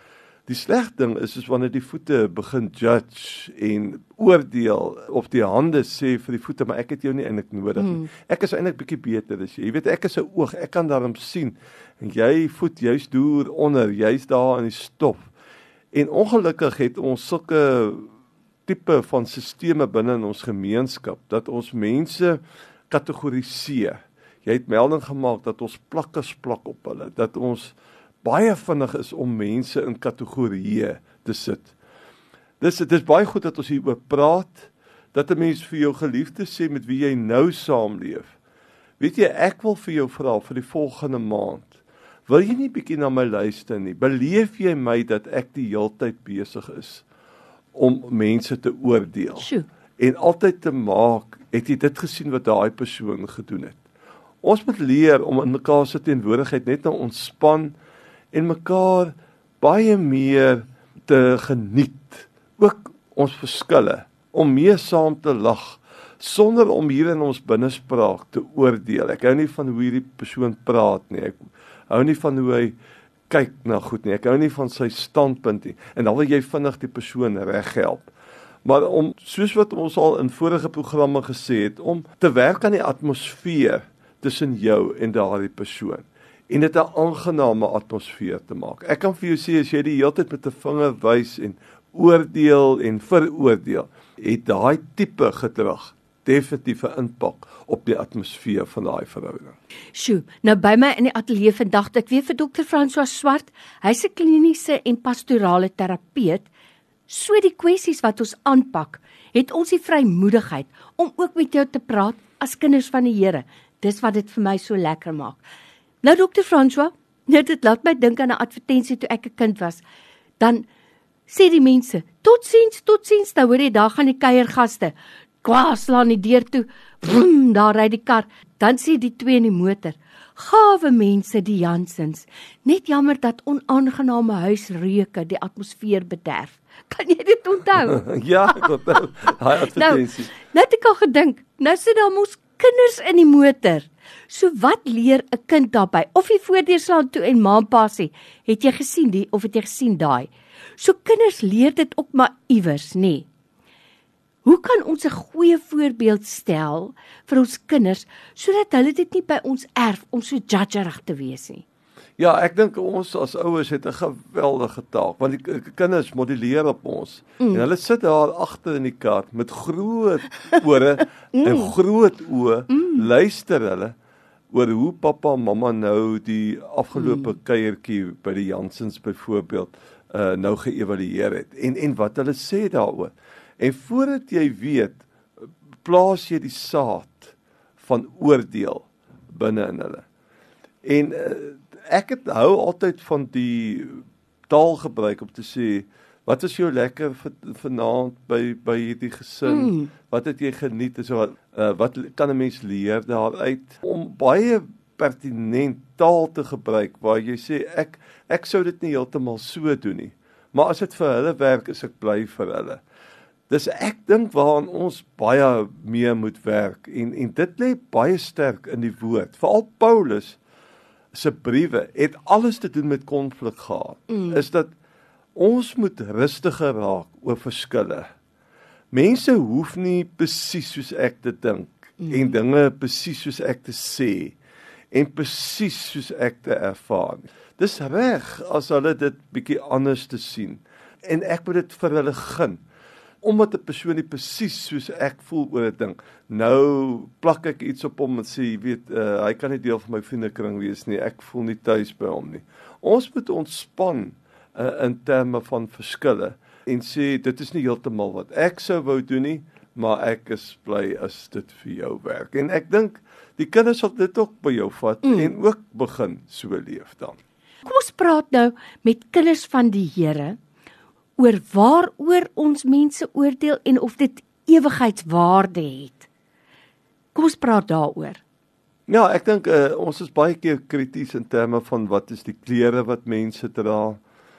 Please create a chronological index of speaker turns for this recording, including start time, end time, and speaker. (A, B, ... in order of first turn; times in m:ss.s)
0:00.5-0:15.3 A
0:07.8-0:08.1 B
0:15.9-0:18.1 A
0:18.6-0:31.7 A
0:32.6-0:38.3 A
0:39.0-0:47.0 A
0:47.7-0:53.8 A
0:49.4-0:49.7 B
0:54.4-0:57.8 A
0:58.3-1:12.7 A
1:13.3-1:18.1 A
1:18.6-1:39.6 A
1:39.9-1:46.5 B
1:47.1-1:55.4 B
1:56.0-1:59.8 B
2:00.4-2:00.6 B
2:01.3-2:18.7 B
2:17.8-2:20.3 A
2:19.6-2:33.3 B
2:34.4-2:41.6 B
2:42.2-2:53.9 A
2:47.4-2:47.6 B
2:51.3-2:51.7 B
2:52.7-2:53.0 B
2:54.5-3:05.0 A
2:57.0-2:57.3 B
3:05.8-3:10.0 A
3:10.8-3:32.8 A
3:19.4-3:19.9 B
3:33.5-3:40.4 A
3:41.1-3:44.7 A
3:44.1-3:44.4 B
3:45.4-3:48.1 A
3:48.9-3:54.4 A
3:52.0-3:52.3 B
3:54.9-4:02.6 A
4:03.2-4:27.2 A
4:25.0-4:25.3 B
4:27.6-4:30.4 B
4:31.2-4:36.1 B
4:37.1-4:38.2 B
4:38.9-4:44.0 A